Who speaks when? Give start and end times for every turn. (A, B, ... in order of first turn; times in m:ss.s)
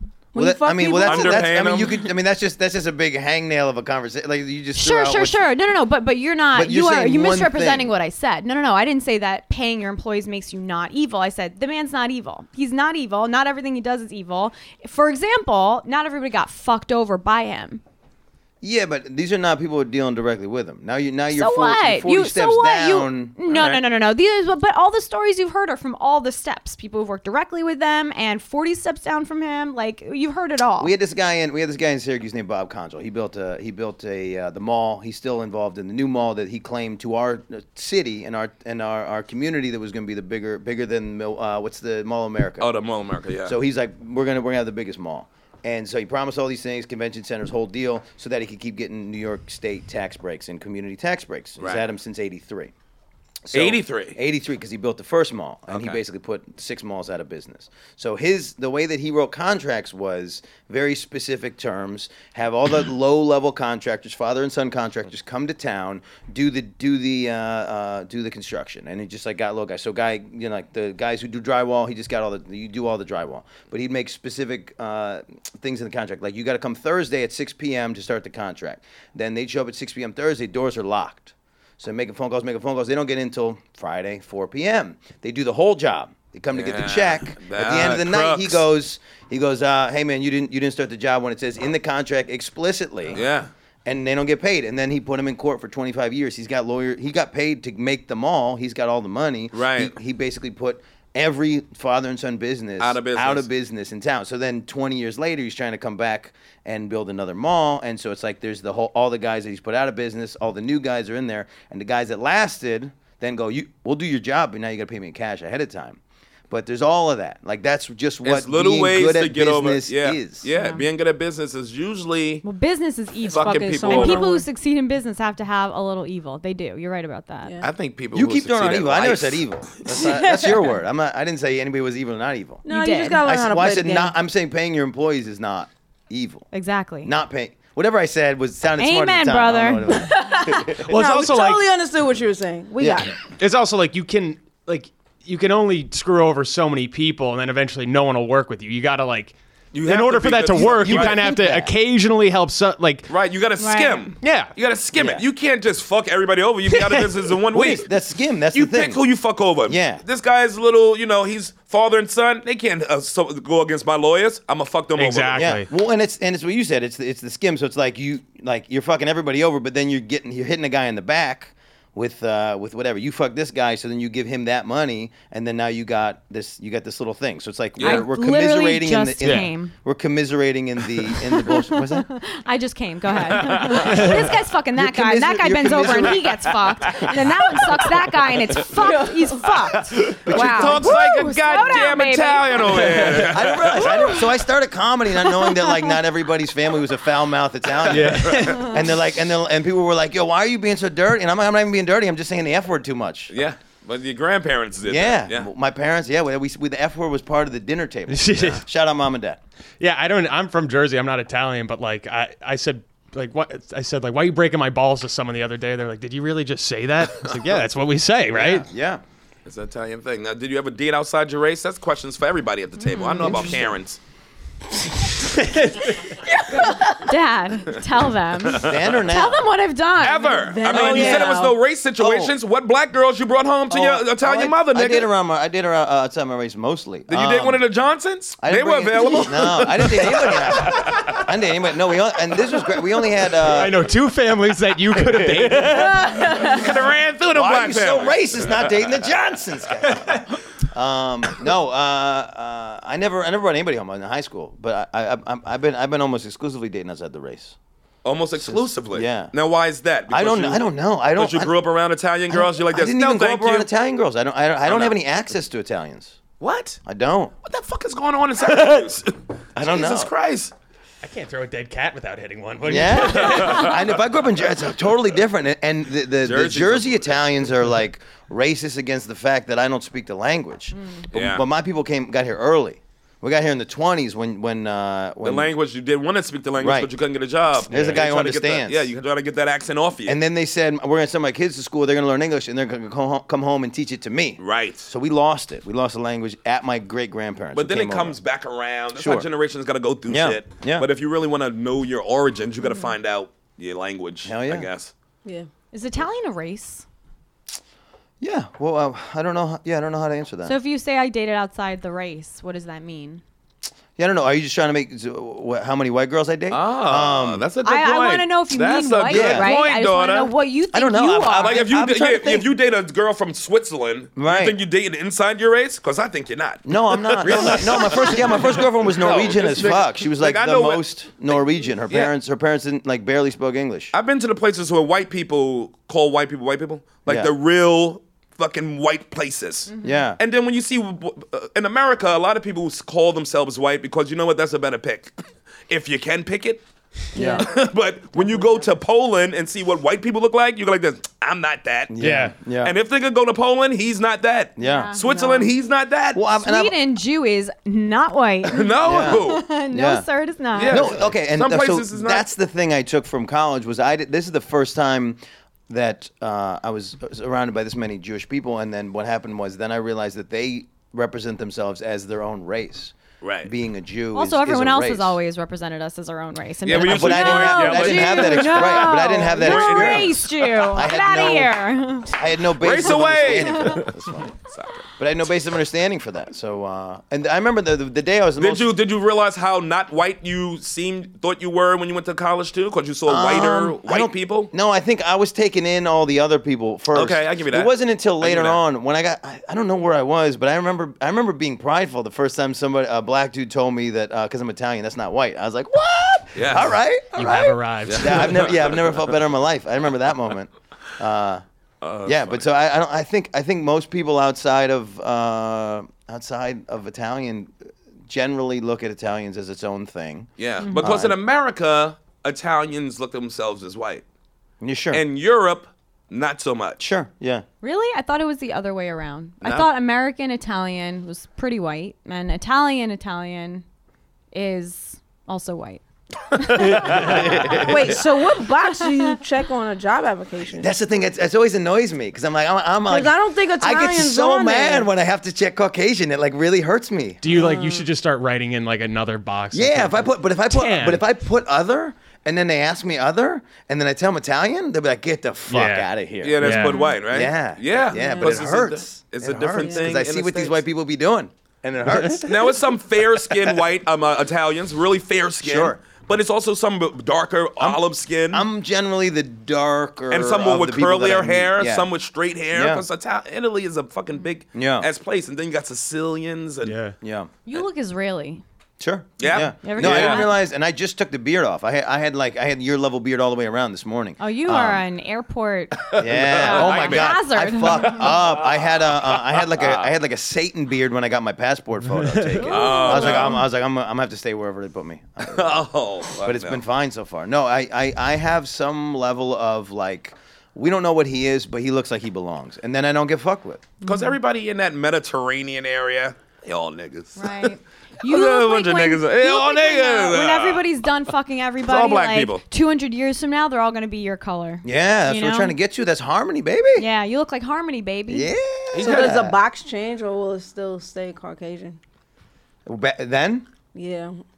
0:00.3-0:01.5 A
0:00.3-0:05.4 B
0:01.0-0:02.0 C
0:04.8-0:17.8 D
0:06.5-0:07.9 B
0:18.6-0:23.4 B
0:21.3-0:30.9 D
0:23.5-0:23.8 C
0:30.8-0:42.7 B
0:42.6-0:43.6 C
0:43.4-0:52.7 B
0:51.6-0:51.8 C
0:53.4-1:33.2 B
0:53.5-0:54.2 C
0:55.7-0:56.0 C
1:26.5-1:28.6 C
1:33.1-1:33.5 C
1:33.8-2:00.4 B
1:39.5-1:39.9 C
1:42.8-1:43.5 C
1:58.2-2:02.4 C
2:00.5-2:00.8 D
2:02.4-2:07.6 D
2:03.2-2:04.5 A
2:03.3-2:04.2 C
2:07.4-2:07.7 A
2:07.6-2:09.5 C
2:08.1-2:12.6 B
2:09.9-2:10.7 A
2:12.7-2:13.2 D
2:12.7-2:14.1 A
2:13.2-2:16.5 B
2:16.5-2:17.1 D
2:17.0-2:20.8 B
2:18.8-2:20.1 D
2:20.0-2:23.1 A
2:20.8-2:21.6 E
2:22.8-2:23.1 B
2:23.4-2:33.1 E
2:29.7-2:31.3 C
2:30.5-2:31.7 B
2:33.1-2:37.9 C
2:33.6-2:34.1 D
2:34.2-2:34.5 E
2:34.9-2:35.2 B
2:37.5-2:39.0 B
2:38.5-2:45.5 C
2:39.6-2:40.0 B
2:45.0-2:45.7 E
2:45.3-3:02.1 B
2:57.8-2:58.1 C
2:57.8-2:59.7 D
2:59.2-2:59.5 E
3:01.3-3:14.2 D
3:03.3-3:04.1 C
3:03.9-3:04.2 B
3:04.7-3:06.5 B
3:06.8-3:07.8 C
3:08.8-3:09.5 A
3:09.4-3:14.1 C
3:10.2-3:10.9 B
3:13.2-3:23.3 B
3:15.2-3:15.9 D
3:17.9-3:18.7 E
3:17.9-3:18.6 C
3:23.3-3:25.5 C
3:24.9-3:29.4 B
3:28.1-3:28.6 E
3:29.8-3:38.7 E
3:38.3-3:39.0 B
3:39.4-3:44.0 C
3:42.9-3:43.4 D
3:45.2-3:46.0 E
3:46.2-3:47.1 A
3:46.5-3:51.2 D
3:48.5-3:48.8 C
3:48.6-3:49.4 B
3:50.0-3:55.1 C
3:50.4-3:51.5 A
3:50.7-3:51.3 B
3:52.0-3:52.3 B
3:53.7-3:57.6 B
3:57.1-4:01.2 C
3:58.4-4:03.8 B
4:03.4-4:06.1 E
4:05.3-4:05.6 C
4:05.7-4:06.7 A
4:06.3-4:08.8 C
4:07.3-4:17.6 B
4:18.0-4:23.7 C
4:18.4-4:19.3 B
4:20.1-4:21.5 B
4:22.3-4:26.2 B
4:24.7-4:24.9 C
4:26.4-4:26.8 C
4:26.8-4:27.3 B
4:27.4-4:30.5 C
4:29.6-4:30.1 B
4:31.0-4:33.6 E
4:32.6-4:45.5 B
4:33.2-4:33.7 C
4:36.2-4:37.2 C
4:41.1-4:41.4 C
4:45.2-4:50.2 C
4:46.6-4:46.9 B
4:47.7-4:48.9 B
4:47.7-4:48.0 E
4:50.0-4:58.2 B
4:54.4-4:54.9 C
4:57.5-5:04.9 C
4:59.0-4:59.3 B
5:00.1-5:00.9 B
5:04.2-5:04.7 B
5:05.7-5:06.8 D
5:08.2-5:10.5 B
5:10.4-5:13.2 D
5:14.0-5:17.5 B
5:16.5-5:20.3 C
5:17.6-5:21.7 D
5:19.1-5:19.5 B
5:20.7-5:22.5 B
5:21.4-5:30.8 C
5:24.2-5:24.6 B
5:26.6-5:33.9 B
5:33.9-5:45.1 C
5:37.1-5:37.3 B
5:39.7-5:40.0 D
5:39.8-5:40.2 B
5:45.7-5:46.6 C
5:47.1-5:47.4 D
5:47.1-5:47.5 B
5:47.2-5:52.0 C
5:51.9-5:52.7 B
5:52.0-5:52.3 E
5:52.6-5:56.2 C
5:54.6-5:55.0 B
5:54.6-5:55.0 D
5:55.0-5:55.4 A
5:56.1-5:56.8 B
5:56.4-6:00.9 D
5:58.5-5:59.4 C
5:58.8-6:00.0 B
6:00.5-6:02.3 C
6:00.6-6:15.2 B
6:13.2-6:13.5 C
6:14.1-6:22.1 D
6:16.6-6:20.8 C
6:16.7-6:21.5 B
6:22.1-6:24.3 B
6:22.6-6:24.8 C
6:23.4-6:23.8 D
6:25.0-6:28.7 B
6:28.4-6:34.5 C
6:33.0-6:51.4 B
6:36.9-6:38.6 C
6:46.3-6:46.7 C
6:47.2-6:48.4 E
6:47.9-6:49.0 C
6:51.8-6:52.4 C
6:52.0-6:57.5 B
6:58.1-7:01.2 B
7:00.4-7:04.0 C
7:00.6-7:00.9 D
7:04.6-7:05.0 B
7:04.9-7:06.8 C
7:06.8-7:07.4 B
7:07.6-7:13.6 D
7:09.4-7:09.7 C
7:14.3-7:15.8 D
7:16.3-7:17.6 D
7:16.5-7:17.6 C
7:16.8-7:17.8 B
7:17.6-7:20.7 A
7:20.6-7:27.5 B
7:22.9-7:24.9 A
7:27.2-7:31.0 E
7:29.5-7:42.6 B
7:35.5-7:36.8 E
7:36.2-7:40.6 C
7:37.9-7:38.4 A
7:39.6-7:39.8 A
7:41.9-7:42.2 E
7:42.2-7:48.4 C
7:43.2-7:43.6 B
7:45.4-7:45.8 B
7:47.6-7:51.9 B
7:50.1-7:56.7 C
7:52.5-7:52.8 B
7:54.5-7:54.9 B
7:56.6-7:57.0 E
7:57.0-7:57.3 B
7:57.4-7:58.4 D
7:58.8-8:04.8 B
7:59.2-8:00.3 C
7:59.3-8:00.4 D
8:04.2-8:08.1 D
8:05.8-8:09.9 C
8:06.0-8:23.6 B
8:12.4-8:13.4 D
8:12.4-8:13.4 C
8:15.3-8:16.6 C
8:23.8-8:30.6 C
8:23.8-8:24.1 D
8:27.2-8:35.5 D
8:31.6-8:32.4 C
8:34.6-8:36.9 B
8:36.8-8:38.3 D
8:38.1-8:39.4 B
8:38.7-8:39.2 C
8:38.8-8:41.8 A
8:42.6-8:43.4 B
8:43.7-8:44.2 A